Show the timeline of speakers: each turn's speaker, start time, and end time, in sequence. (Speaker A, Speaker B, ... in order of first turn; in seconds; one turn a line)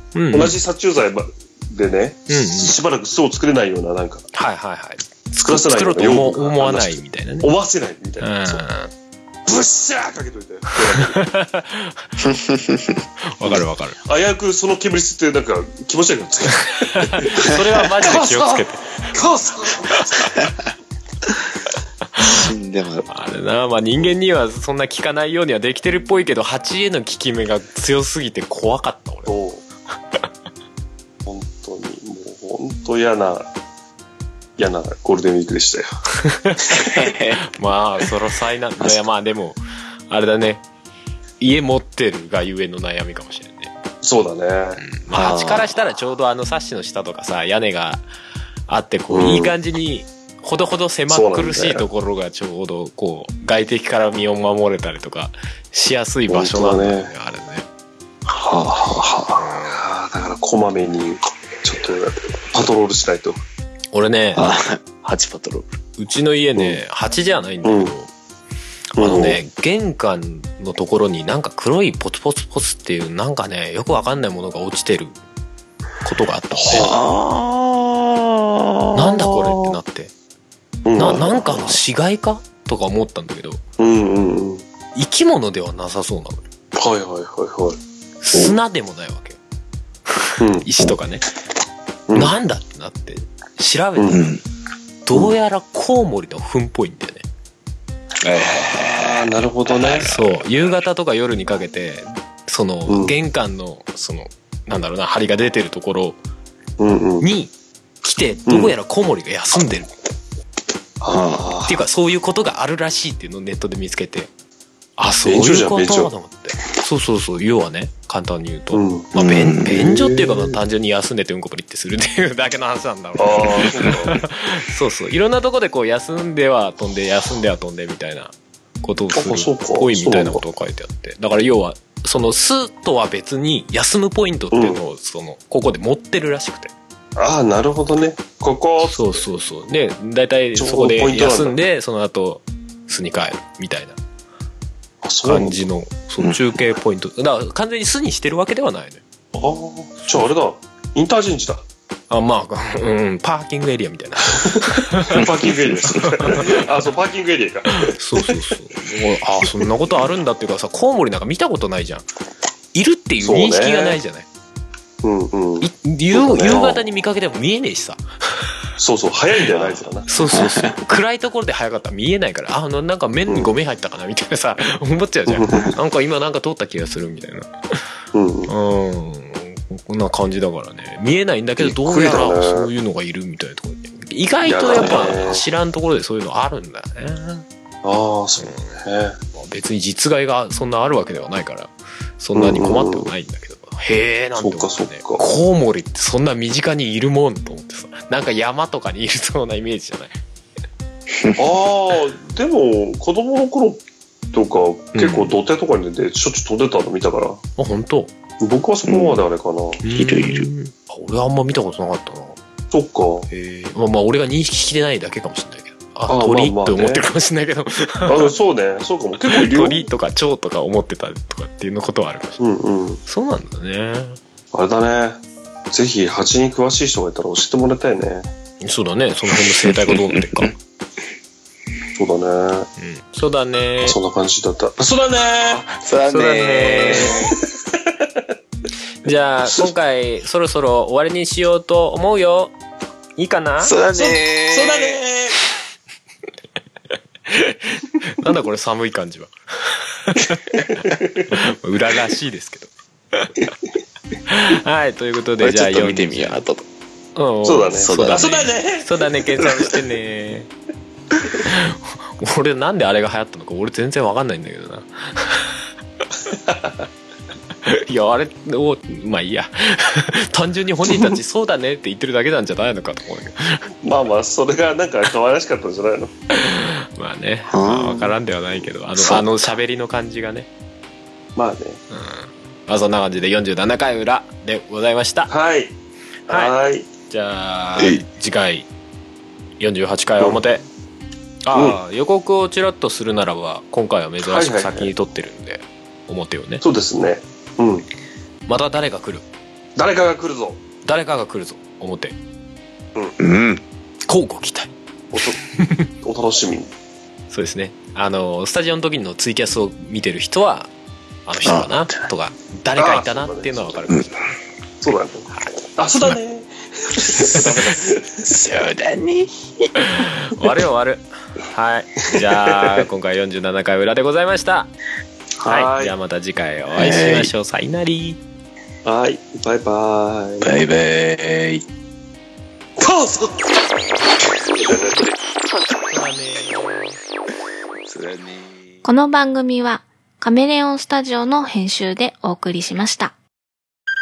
Speaker A: 0.1-0.6
Speaker B: 0.3-4.2
Speaker A: 2.3-2.7
Speaker A: 4.3-7.5
Speaker B: 5.3-8.6
Speaker A: 8.2-8.9
Speaker B: 9.4-11.2
Speaker A: 10.9-12.1
Speaker C: 12.2-13.6
Speaker A: 13.3-14.0
Speaker B: 14.1-20.4
Speaker A: 16.8-18.9
Speaker A: 22.1-22.4
Speaker C: 22.2-23.1
Speaker A: 23.1-29.3
Speaker B: 29.2-29.6
Speaker B: 31.2-33.5
Speaker B: 34.6-35.9
Speaker A: 36.2-36.6
Speaker C: 36.8-37.4
Speaker A: 37.5-40.6
Speaker A: 41.4-43.7
Speaker B: 44.0-44.8
Speaker A: 44.8-48.0
Speaker C: 45.1-45.7
Speaker A: 48.7-57.6
Speaker B: 49.1-49.5
Speaker B: 51.1-51.9
Speaker B: 56.3-57.1
Speaker C: 58.3-59.4
Speaker A: 59.4-59.8
Speaker B: 59.7-63.4
Speaker A: 63.9-64.4
Speaker C: 64.3-65.7
Speaker A: 66.0-68.1
Speaker B: 67.6-67.9
Speaker A: 68.9-75.2
Speaker B: 69.0-69.4
Speaker A: 76.0-76.9
Speaker B: 76.6-77.0
Speaker C: 76.7-79.7
Speaker A: 78.9-80.1
Speaker B: 80.8-81.5
Speaker A: 81.0-83.6
Speaker B: 83.8-84.6
Speaker A: 84.9-86.4
Speaker B: 86.7-87.8
Speaker A: 88.2-89.4
Speaker A: 90.1-91.2
Speaker B: 90.4-90.7
Speaker B: 92.1-92.3
Speaker A: 92.1-94.2
Speaker C: 94.1-94.4
Speaker A: 95.0-97.2
Speaker C: 98.2-100.5
Speaker B: 98.3-100.1
Speaker A: 100.0-106.2
Speaker B: 102.9-103.2
Speaker B: 106.8-107.2
Speaker A: 107.2-107.5
Speaker A: 108.0-109.9
Speaker B: 108.5-108.7
Speaker B: 111.0-111.8
Speaker C: 111.1-111.5
Speaker A: 111.6-114.3
Speaker A: 115.0-136.7
Speaker B: 115.2-116.1
Speaker B: 118.7-119.1
Speaker C: 119.2-119.9
Speaker B: 119.6-120.5
Speaker B: 123.2-124.2
Speaker B: 129.1-130.4
Speaker B: 134.5-134.8
Speaker B: 137.2-139.2
Speaker A: 138.8-144.0
Speaker B: 140.6-141.6
Speaker B: 145.0-145.6
Speaker A: 145.2-149.0
Speaker B: 149.3-151.6
Speaker A: 152.1-155.2
Speaker B: 154.3-158.3
Speaker C: 155.2-156.6
Speaker A: 156.2-156.7
Speaker A: 157.7-162.0
Speaker A: 162.7-164.3
Speaker B: 163.2-164.0
Speaker B: 165.0-166.8
Speaker A: 165.6-168.5
Speaker B: 168.8-170.1
Speaker A: 170.1-177.5
Speaker C: 170.3-170.8
Speaker B: 173.3-173.6
Speaker B: 175.3-175.7
Speaker B: 178.1-178.5
Speaker A: 178.5-187.4
Speaker B: 181.6-182.7
Speaker B: 184.4-185.4
Speaker C: 184.8-185.2
Speaker B: 187.8-189.2
Speaker A: 188.4-188.8
Speaker A: 189.3-200.1
Speaker B: 192.3-193.1
Speaker B: 194.4-195.2
Speaker C: 201.1-201.4
Speaker B: 201.4-203.8
Speaker B: 204.3-207.4
Speaker A: 204.9-205.3
Speaker A: 207.6-208.1
Speaker B: 208.4-209.8
Speaker C: 208.8-209.2
Speaker A: 209.8-212.4
Speaker C: 209.9-210.5
Speaker B: 212.7-213.3
Speaker A: 213.3-218.3
Speaker B: 216.1-217.0
Speaker B: 218.0-219.9
Speaker A: 219.3-222.4
Speaker B: 222.4-223.0
Speaker A: 223.1-224.2
Speaker B: 224.5-225.2
Speaker B: 225.7-228.3
Speaker A: 228.6-230.5
Speaker C: 229.3-230.5
Speaker B: 231.9-232.7
Speaker A: 232.8-234.0
Speaker B: 233.8-235.6
Speaker C: 235.5-237.4
Speaker A: 236.1-237.2
Speaker B: 237.5-238.0
Speaker A: 239.0-242.5
Speaker A: 243.2-243.7
Speaker C: 243.6-245.0
Speaker B: 243.9-245.4
Speaker A: 247.3-250.6
Speaker B: 250.8-251.2
Speaker A: 251.3-253.5
Speaker A: 254.3-256.4
Speaker C: 255.4-256.6
Speaker A: 257.1-260.5
Speaker B: 257.4-259.8
Speaker C: 257.8-258.5
Speaker A: 261.4-265.6
Speaker B: 266.3-266.9
Speaker A: 267.6-273.6
Speaker B: 270.9-271.2
Speaker B: 273.8-276.1
Speaker A: 276.3-280.5
Speaker C: 277.5-278.2
Speaker C: 278.9-279.2
Speaker B: 281.4-281.8
Speaker A: 281.9-285.3
Speaker B: 285.3-285.7
Speaker B: 286.3-286.9
Speaker A: 287.1-288.7
Speaker C: 287.8-288.0
Speaker A: 289.6-290.6
Speaker A: 291.4-296.6
Speaker B: 291.5-291.8
Speaker B: 294.2-294.9
Speaker B: 296.6-297.9
Speaker A: 298.5-299.2
Speaker B: 299.8-300.6
Speaker A: 300.8-302.1
Speaker C: 303.2-303.6
Speaker A: 304.1-304.7
Speaker B: 305.1-305.4
Speaker A: 305.6-305.9
Speaker B: 306.0-306.7
Speaker A: 307.3-310.7
Speaker A: 311.2-314.1
Speaker C: 311.4-312.1
Speaker B: 312.8-313.9
Speaker B: 314.8-318.2
Speaker C: 317.3-319.3
Speaker A: 319.8-324.7
Speaker B: 322.3-322.9
Speaker B: 325.4-325.9
Speaker A: 325.5-328.2
Speaker C: 326.8-327.3
Speaker B: 328.8-330.5
Speaker C: 330.4-331.6
Speaker B: 332.8-333.5
Speaker B: 334.6-335.1
Speaker A: 335.9-336.7
Speaker C: 337.9-338.8
Speaker D: 338.8-343.1